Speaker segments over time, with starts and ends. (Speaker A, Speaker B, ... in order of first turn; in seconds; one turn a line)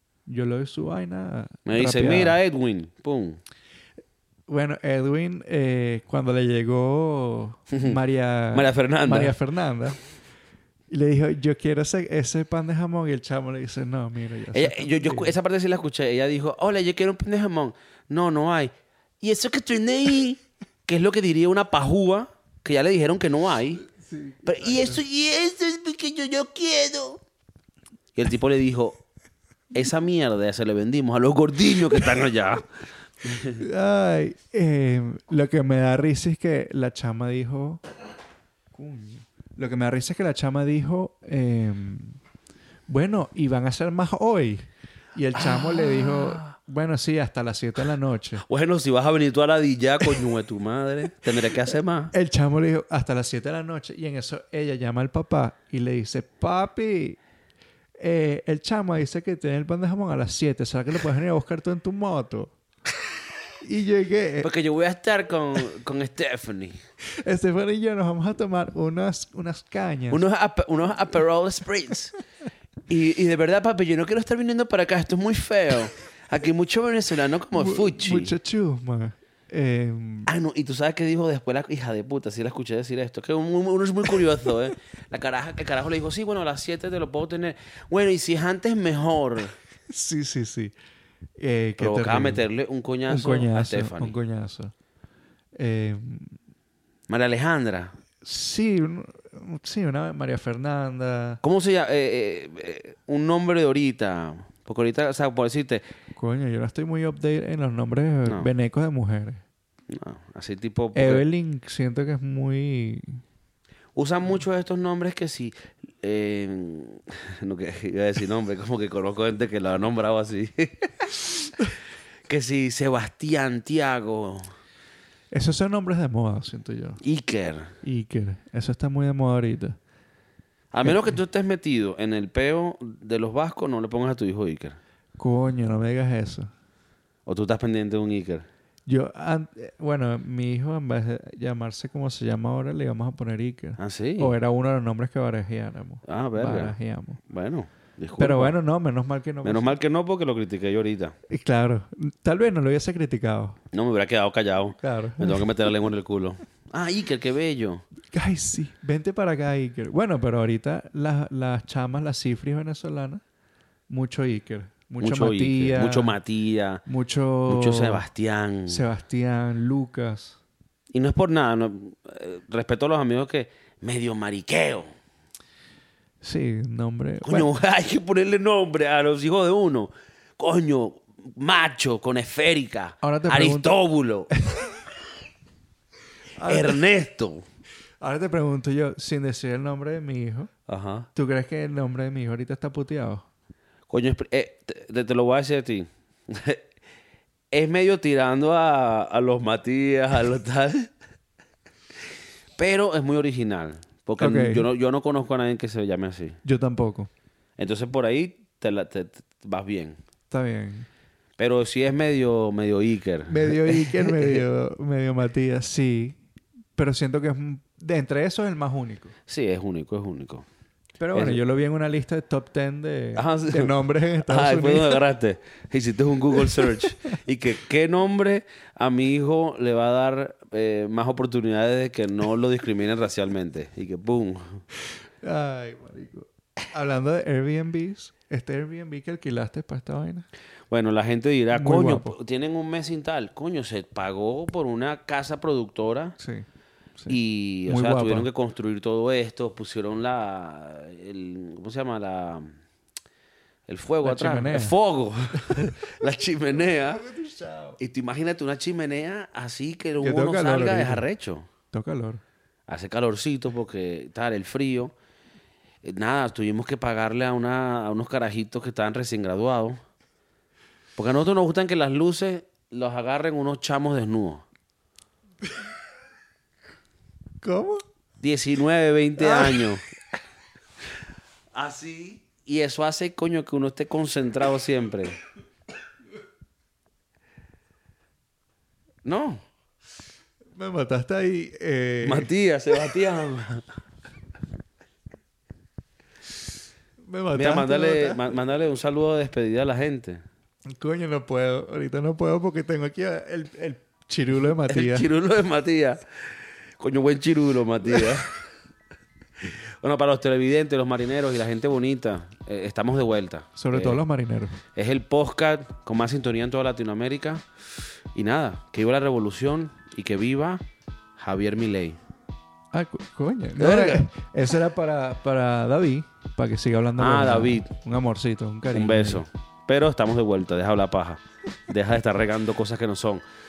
Speaker A: 0.3-2.4
Speaker B: 1.7-3.4
Speaker A: 4.5-10.0
Speaker B: 7.7-8.0
Speaker B: 8.5-9.4
Speaker A: 10.9-15.3
Speaker B: 14.5-23.9
Speaker A: 23.9-25.0
Speaker B: 24.4-27.2
Speaker B: 28.1-29.0
Speaker B: 29.7-32.7
Speaker B: 33.2-33.6
Speaker A: 33.6-37.8
Speaker A: 38.7-42.2
Speaker A: 42.9-48.4
Speaker B: 45.4-46.5
Speaker B: 48.4-52.1
Speaker A: 52.1-57.2
Speaker A: 58.0-62.5
Speaker A: 63.6-64.5
Speaker B: 64.4-66.8
Speaker A: 67.1-70.2
Speaker B: 70.1-72.2
Speaker B: 72.9-78.4
Speaker A: 77.5-80.3
Speaker B: 80.3-89.5
Speaker A: 89.9-90.8
Speaker A: 91.4-92.4
Speaker B: 91.8-94.2
Speaker A: 93.1-94.7
Speaker A: 95.6-96.4
Speaker B: 97.1-98.0
Speaker A: 98.2-101.4
Speaker B: 101.4-105.8
Speaker A: 106.1-109.4
Speaker B: 109.9-111.3
Speaker A: 110.9-113.2
Speaker B: 114.0-120.9
Speaker B: 122.3-124.5
Speaker A: 125.3-127.0
Speaker B: 127.0-127.7
Speaker A: 127.8-129.8
Speaker B: 130.7-134.8
Speaker A: 130.8-131.2
Speaker A: 135.2-136.5
Speaker B: 137.3-138.5
Speaker A: 138.9-147.2
Speaker B: 143.8-144.3
Speaker B: 146.1-146.8
Speaker B: 147.3-148.6
Speaker A: 148.2-149.8
Speaker B: 149.4-151.2
Speaker A: 151.3-153.6
Speaker B: 153.7-157.8
Speaker A: 154.8-155.5
Speaker A: 158.1-163.2
Speaker A: 163.9-166.2
Speaker B: 165.0-166.8
Speaker A: 166.8-168.1
Speaker B: 167.5-168.8
Speaker A: 168.7-170.4
Speaker B: 170.9-174.9
Speaker A: 176.2-177.5
Speaker B: 177.2-184.3
Speaker A: 183.0-183.8
Speaker A: 184.3-184.8
Speaker A: 186.4-186.8
Speaker B: 186.5-187.4
Speaker A: 188.0-190.5
Speaker B: 190.7-191.1
Speaker A: 191.1-193.3
Speaker B: 193.9-196.6
Speaker B: 197.5-200.9
Speaker B: 202.6-206.4
Speaker A: 204.2-204.7
Speaker A: 206.4-207.1
Speaker B: 207.6-210.0
Speaker A: 210.3-210.9
Speaker B: 211.4-214.4
Speaker A: 213.3-216.2
Speaker A: 216.8-219.1
Speaker B: 219.3-220.4
Speaker A: 221.0-225.0
Speaker B: 221.1-221.4
Speaker B: 223.2-234.6
Speaker A: 226.4-226.8
Speaker A: 235.2-240.3
Speaker B: 240.7-246.2
Speaker A: 241.5-242.2
Speaker A: 246.2-246.5
Speaker A: 247.0-248.3
Speaker B: 247.1-252.6
Speaker B: 253.7-257.0
Speaker A: 254.0-254.8
Speaker A: 255.4-255.8
Speaker A: 256.5-257.8
Speaker B: 257.8-261.5
Speaker A: 260.0-261.0
Speaker A: 261.7-262.2
Speaker B: 262.7-264.9
Speaker B: 265.8-269.8
Speaker B: 271.0-274.4
Speaker A: 277.4-277.8
Speaker B: 278.2-279.8
Speaker A: 279.2-279.8
Speaker B: 281.6-285.2
Speaker B: 289.1-289.4
Speaker A: 290.5-292.3
Speaker B: 292.0-293.6
Speaker A: 297.0-298.3
Speaker B: 297.3-300.2
Speaker A: 300.7-305.1
Speaker B: 304.6-306.0
Speaker B: 306.8-308.4
Speaker B: 309.4-314.0
Speaker A: 313.6-314.6
Speaker B: 314.7-317.4
Speaker B: 318.1-320.6
Speaker B: 321.2-322.0
Speaker A: 322.7-329.2
Speaker B: 323.6-324.1
Speaker B: 327.0-327.7
Speaker B: 328.7-333.2